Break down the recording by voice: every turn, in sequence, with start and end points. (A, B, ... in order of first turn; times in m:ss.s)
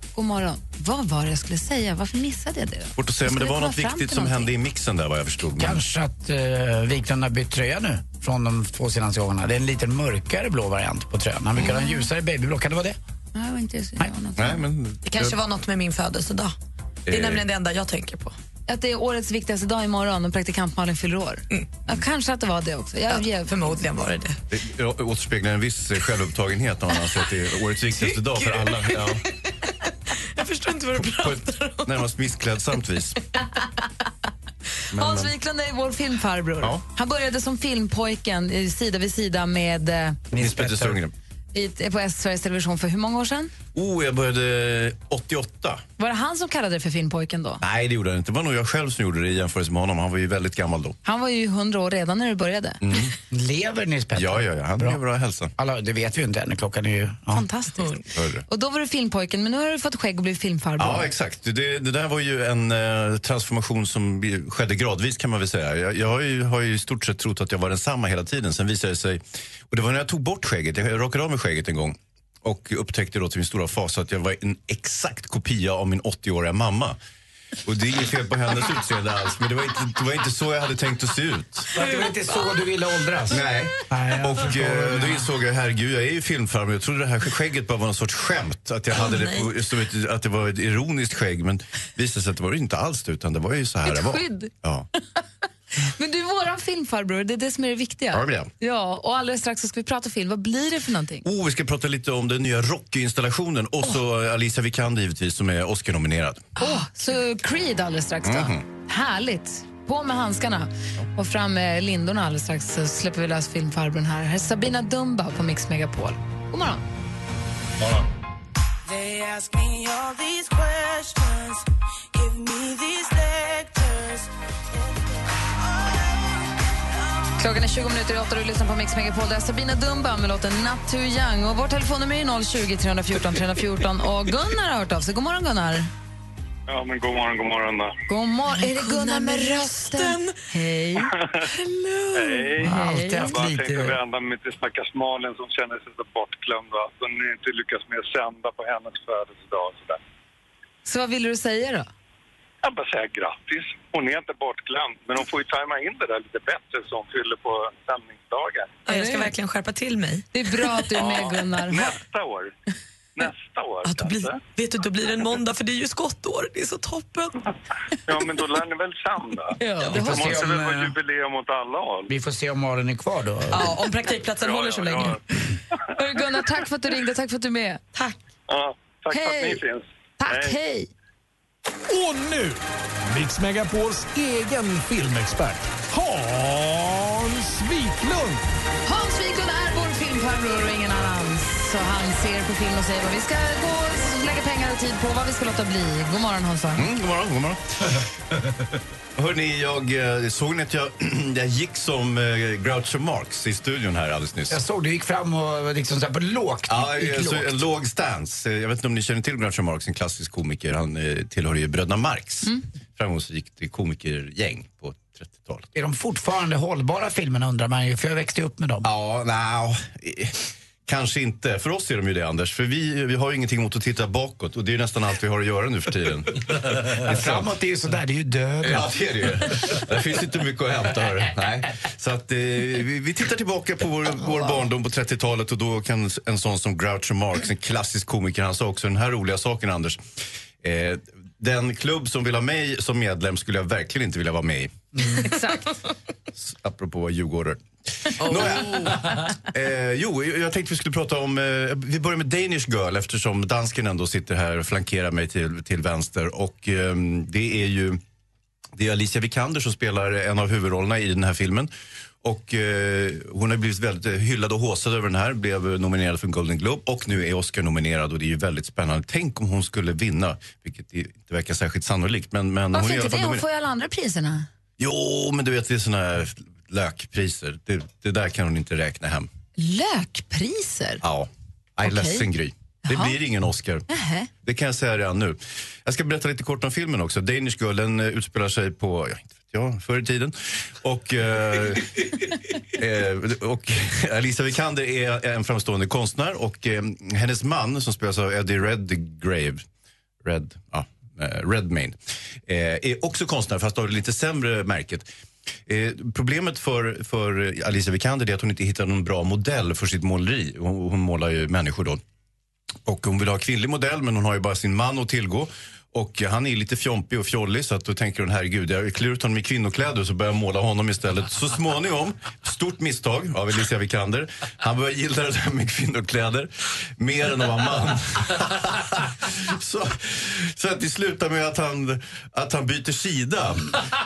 0:00.1-0:04.5 A
0:03.0-0:05.8 B
0:05.6-0:13.0 C
0:13.3-0:14.6 A
0:14.4-0:15.4 B
0:15.0-0:16.5 D
0:17.1-0:17.4 B
0:17.1-0:18.4 D
0:18.7-0:23.7 A
0:23.1-0:24.4 D
0:24.5-0:29.2 B
0:28.4-0:29.1 D
0:29.6-0:31.9 D
0:31.0-0:33.2 B
0:34.9-0:35.3 B
0:34.9-0:40.2 A
0:40.3-0:41.0 C
0:40.3-0:41.1 B
0:41.5-0:43.5 A
0:43.7-0:45.8 B
0:46.0-0:47.6 A
0:47.6-0:50.9 B
0:51.0-0:52.8 A
0:52.8-0:53.1 B
0:53.3-0:55.0 C
0:54.2-0:55.5 B
0:55.6-0:57.5 C
0:57.3-1:01.1 A
0:58.1-0:58.4 B
1:00.8-1:17.0 B
1:17.6-1:21.7 B
1:21.7-1:25.3 C
1:21.8-1:22.5 D
1:23.3-1:34.8 B
1:28.9-1:29.5 D
1:33.8-1:35.2 A
1:35.8-1:41.2 A
1:38.1-1:38.5 B
1:41.2-1:46.4 B
1:46.6-1:46.8 D
1:46.6-1:56.8 A
1:48.2-1:48.6 B
1:59.1-2:01.1 E
2:02.3-2:03.8 E
2:07.4-2:15.9 A
2:16.7-2:18.0 F
2:18.1-2:21.1 A
2:18.6-2:20.3 D
2:21.5-2:22.5 D
2:22.1-2:30.0 F
2:22.6-2:24.0 C
2:22.6-2:23.4 A
2:30.8-2:31.9 A
2:32.6-2:38.8 F
2:38.9-2:40.8 D
2:38.9-2:39.3 A
2:40.3-2:41.9 A
2:41.0-2:42.5 F
2:43.2-2:44.4 F
2:43.8-2:47.5 D
2:48.1-2:52.1 F
2:49.6-2:50.2 A
2:49.9-2:50.9 C
2:52.1-2:53.7 C
2:53.5-2:55.2 D
2:54.3-2:55.2 F
2:56.0-2:58.0 A
2:58.5-3:00.5 F
2:59.1-2:59.6 A
3:00.2-3:00.9 A
3:01.9-3:08.4 G
3:08.8-3:16.9 A
3:16.8-3:17.9 B
3:19.2-3:24.6 B
3:24.5-3:27.6 C
3:26.7-3:35.7 B
3:35.7-3:38.9 C
3:38.8-3:47.4 B
3:47.0-3:48.9 C
3:48.6-4:00.0 B
4:00.6-4:04.7 B
4:05.2-4:05.7 A
4:06.4-4:18.0 B
4:08.3-4:08.6 D
4:18.8-4:21.7 B
4:22.2-4:33.4 B
4:32.7-4:34.5 A
4:34.8-4:39.3 B
4:39.6-4:41.0 A
4:41.0-4:43.8 B
4:41.8-4:42.3 A
4:42.8-4:43.2 A
4:43.9-4:44.3 A
4:44.4-4:59.6 B
5:00.2-5:02.0 B
5:02.5-5:05.1 B
5:05.7-5:12.0 B
5:12.8-5:33.8 B